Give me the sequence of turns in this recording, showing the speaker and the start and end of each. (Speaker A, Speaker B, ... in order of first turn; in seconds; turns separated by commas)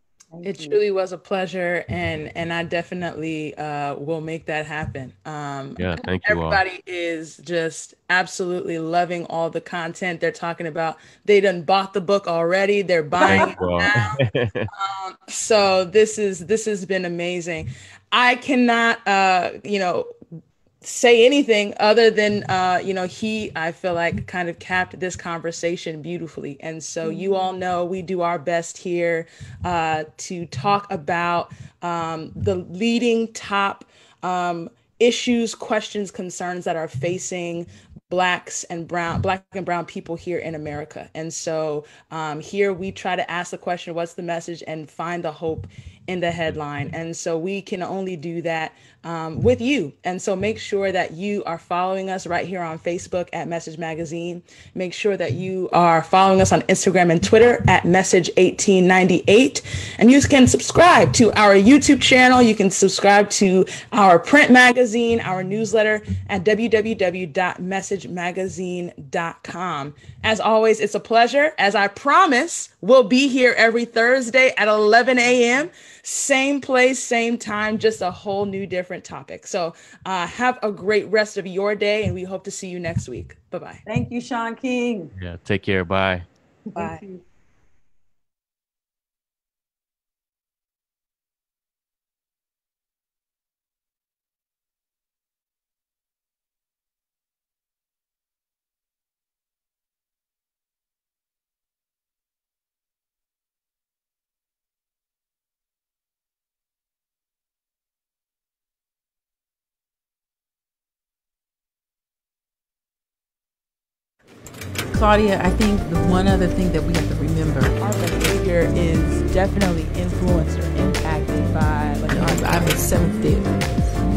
Speaker A: 0.3-0.8, Speaker B: 0.4-14.2, Speaker C: 5.8-6.6, Speaker A: 13.2-13.5, Speaker C: 13.2-14.7, Speaker B: 14.7-20.1, Speaker B: 20.8-83.8, Speaker A: 27.0-27.4, Speaker A: 75.2-75.6, Speaker A: 83.8-85.1, Speaker C: 85.1-86.2, Speaker A: 86.7-87.2, Speaker B: 86.8-87.0, Speaker A: 114.9-117.7, Speaker B: 117.8-123.5, Speaker A: 122.1-123.6